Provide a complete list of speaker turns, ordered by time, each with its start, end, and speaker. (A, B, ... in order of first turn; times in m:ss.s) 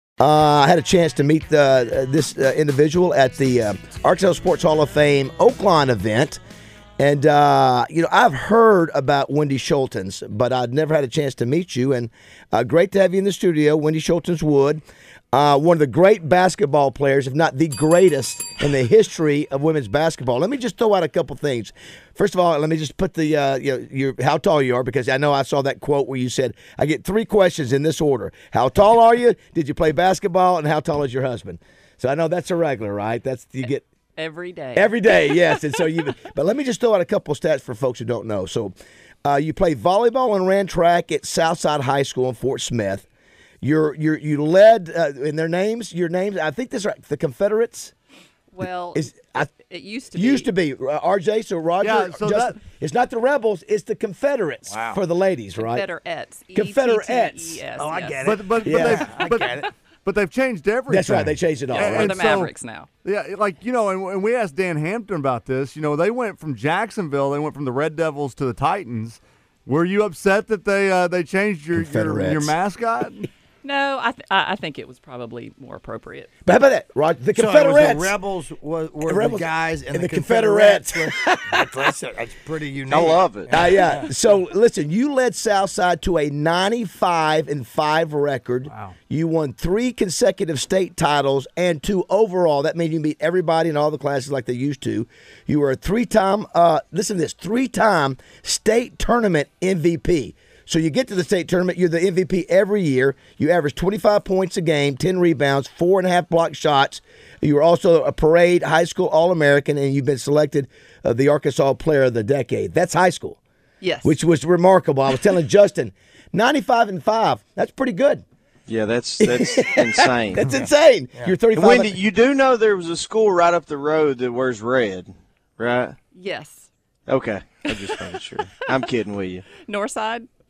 0:00.2-0:06.4 A
0:07.0-0:33.8 A
0:34.2-0:35.5 B
0:34.8-0:38.7 A
0:39.2-0:43.0 A
0:43.6-0:47.9 A
0:48.5-0:50.5 B
0:48.9-0:49.5 A
0:50.1-0:55.8 A
0:51.8-0:52.6 C
0:54.7-0:55.0 D
0:55.6-0:58.3 B
0:56.5-0:57.6 A
0:57.8-0:59.7 D
0:58.2-1:02.5 C
0:58.6-0:59.0 A
1:00.9-1:02.2 A
1:01.8-1:02.9 B
1:03.0-1:13.2 C
1:11.8-1:12.5 A
1:13.6-1:16.3 B
1:16.4-1:18.1 A
1:17.3-1:24.0 D
1:19.1-1:21.8 A
1:22.9-1:23.6 E
1:23.5-1:53.4 A
1:53.8-1:54.2 B
1:54.0-1:58.2 A
1:58.7-2:00.5 E
1:59.2-2:02.0 A
2:00.5-2:01.3 D
2:01.5-2:06.0 E
2:06.1-2:06.7 B
2:07.1-2:09.5 E
2:07.7-2:08.2 B
2:09.6-2:10.3 B